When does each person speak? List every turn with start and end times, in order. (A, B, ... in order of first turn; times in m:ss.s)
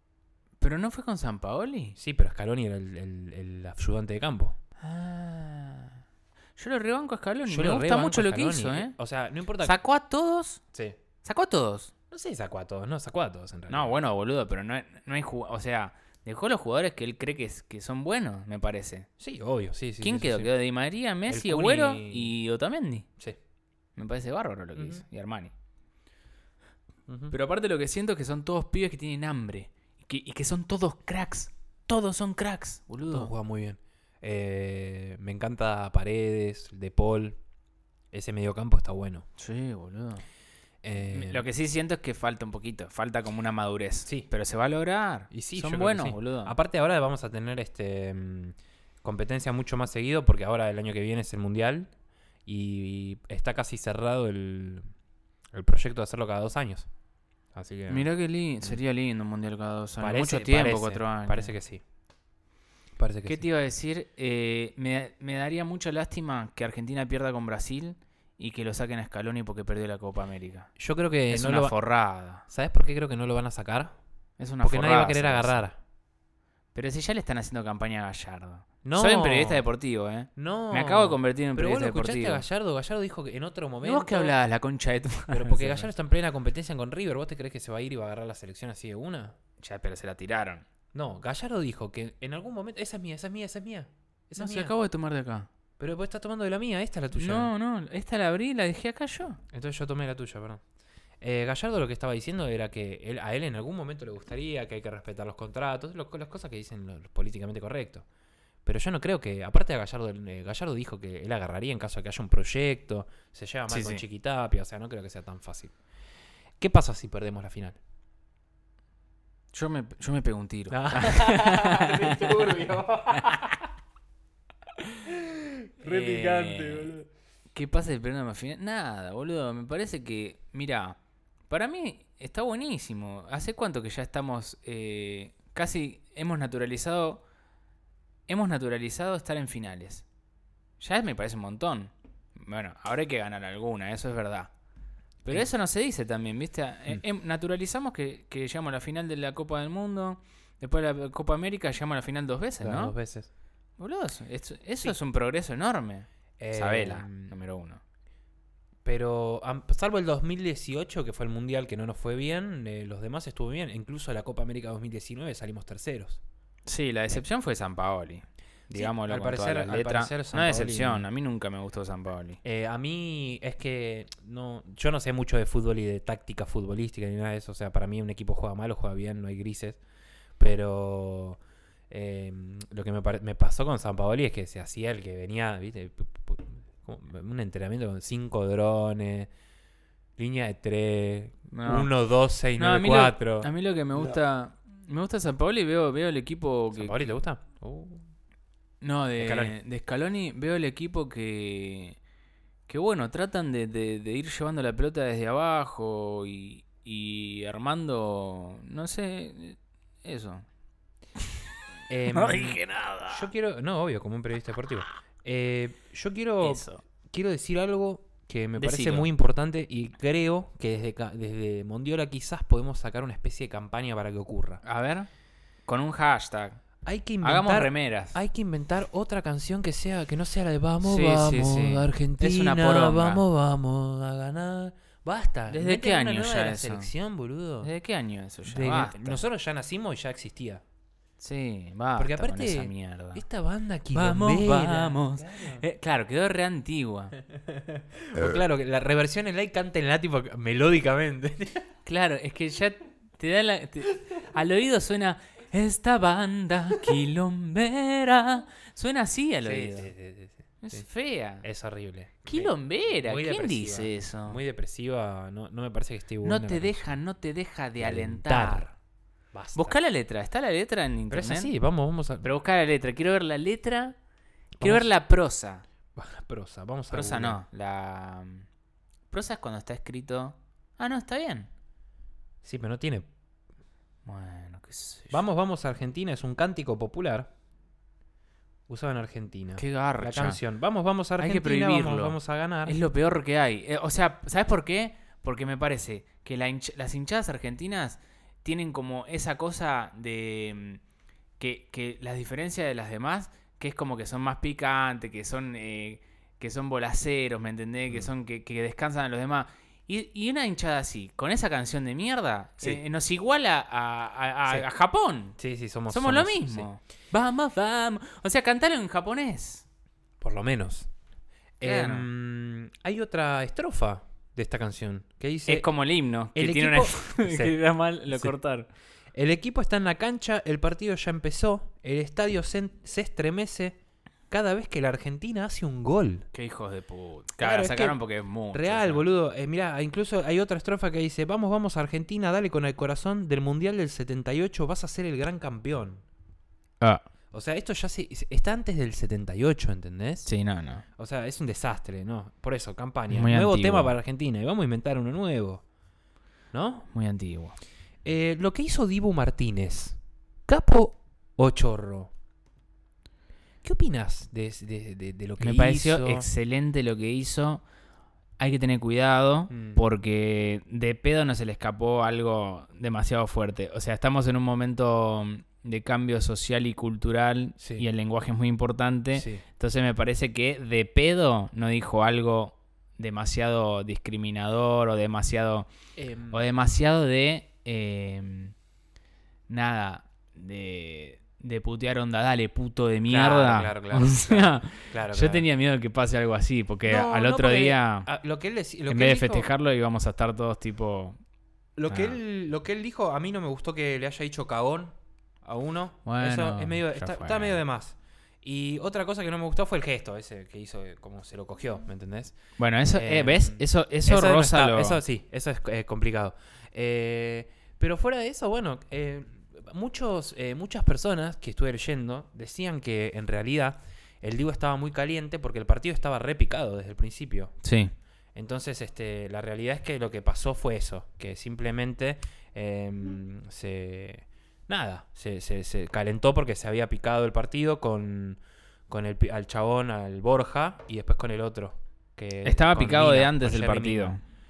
0:00.6-0:02.0 A
0:02.0-0:04.6 B
0:04.8-0:06.0 A
0:06.6-0:09.0 A
0:07.5-0:09.8 B
0:09.6-0:10.6 A
0:11.2-0:11.9 A
0:12.1-0:14.0 B
0:13.7-0:19.1 A
0:19.2-0:20.5 B
0:20.0-0:23.1 A
0:21.3-0:22.4 B
0:24.0-0:25.5 A
0:24.8-0:25.0 B
0:27.1-0:27.4 B
0:27.3-0:33.3 A
0:33.1-0:37.4 B
0:38.1-0:39.2 B
0:39.4-0:40.2 A
0:40.8-0:41.4 B
0:41.0-0:46.6 A
0:44.0-0:44.3 B
0:45.3-0:51.9 B
0:52.5-0:54.9 B
0:55.5-0:56.9 B
0:57.5-0:58.1 B
0:57.9-1:01.5 A
1:00.0-1:01.8 B
1:03.0-1:03.4 B
1:03.2-1:10.7 A
1:10.8-1:11.8 B
1:11.3-1:12.4 A
1:12.4-1:14.0 B
1:14.4-1:15.6 A
1:14.6-1:15.8 B
1:16.7-1:22.4 A
1:18.8-1:19.7 B
1:20.4-1:24.4 B
1:23.8-1:25.9 A
1:25.3-1:29.4 B
1:29.6-1:30.6 A
1:30.9-1:34.7 B
1:34.4-1:35.5 A
1:35.8-1:37.5 B
1:37.1-1:39.4 A
1:39.5-1:40.6 B
1:41.2-1:48.0 B
1:48.6-1:55.8 B
1:53.7-1:54.0 A
1:56.6-1:57.8 B
1:59.5-2:02.5 A
2:00.7-2:03.6 B
2:03.2-2:03.4 A
2:05.0-2:07.1 B
2:05.8-2:07.0 A
2:07.5-2:11.0 A
2:11.5-2:17.2 A
2:18.3-2:20.0 A
2:20.8-2:24.5 A
2:25.2-2:33.0 A
2:32.6-2:33.3 B
2:33.8-2:37.8 A
2:36.4-2:37.3 B
2:38.8-2:46.2 B
2:46.7-2:52.4 A
2:48.7-2:51.1 B
2:52.4-2:59.8 B
3:00.4-3:09.3 B
3:10.2-3:14.1 B
3:11.5-3:11.9 A
3:12.6-3:17.0 A
3:16.7-3:18.0 B
3:18.8-3:22.0 A
3:19.2-3:19.6 B
3:22.7-3:30.4 A
3:31.9-3:44.6 B
3:32.1-3:33.3 A
3:36.4-3:36.8 A
3:38.6-3:39.1 A
3:44.6-3:45.1 A
3:45.7-3:46.6 A
3:46.8-3:57.7 B
3:47.2-3:48.2 A
3:50.8-3:53.2 A
3:55.5-3:56.9 A
3:57.6-3:59.2 A
3:58.5-4:00.6 B
4:01.2-4:03.2 A
4:02.0-4:05.7 B
4:03.9-4:07.2 A
4:07.3-4:11.6 B
4:11.9-4:19.9 A
4:19.4-4:20.9 B
4:20.6-4:21.5 A
4:21.4-4:26.8 B
4:22.2-4:24.4 A
4:26.2-4:28.7 A
4:27.8-4:28.8 B
4:29.3-4:29.8 B
4:29.6-4:31.5 A
4:31.1-4:32.3 B
4:32.2-4:34.0 A
4:34.6-4:34.9 B
4:34.6-4:35.6 A
4:36.0-4:37.4 B
4:36.9-4:38.5 A
4:39.1-4:41.5 A
4:42.4-4:43.1 B
4:44.1-4:45.2 A
4:45.1-4:47.3 B
4:48.7-4:52.8 B
4:49.6-4:50.4 A
4:51.2-5:00.8 A
5:01.4-5:15.4 A
5:15.4-5:16.7 B
5:15.9-5:19.6 A
5:20.2-5:20.9 B
5:21.6-5:25.7 B
5:21.6-5:22.1 A
5:25.5-5:28.7 A
5:26.3-5:27.6 B
5:28.1-5:28.4 B
5:29.1-5:33.8 B
5:34.3-5:36.3 B
5:36.3-5:39.0 A
5:37.4-5:46.0 B
5:47.3-5:50.3 B
5:50.2-5:50.8 A
5:51.0-5:55.6 B
5:53.1-5:53.9 A
5:56.5-5:56.9 B
5:56.9-5:57.6 A
5:58.0-6:02.1 B
6:03.6-6:06.3 B
6:05.4-6:07.6 A
6:08.4-6:25.7 A
6:09.5-6:09.8 B
6:17.6-6:17.9 B
6:19.1-6:19.4 B
6:26.0-6:26.5 B
6:26.3-6:28.5 A
6:29.5-6:38.1 A
6:33.1-6:35.5 B
6:36.9-6:39.5 B
6:38.9-6:41.2 A
6:41.8-7:07.6 B
6:41.9-6:42.2 A
6:46.0-6:47.6 A
6:52.6-6:55.0 A
7:07.6-7:07.9 A
7:08.3-7:24.2 B
7:22.4-7:24.2 A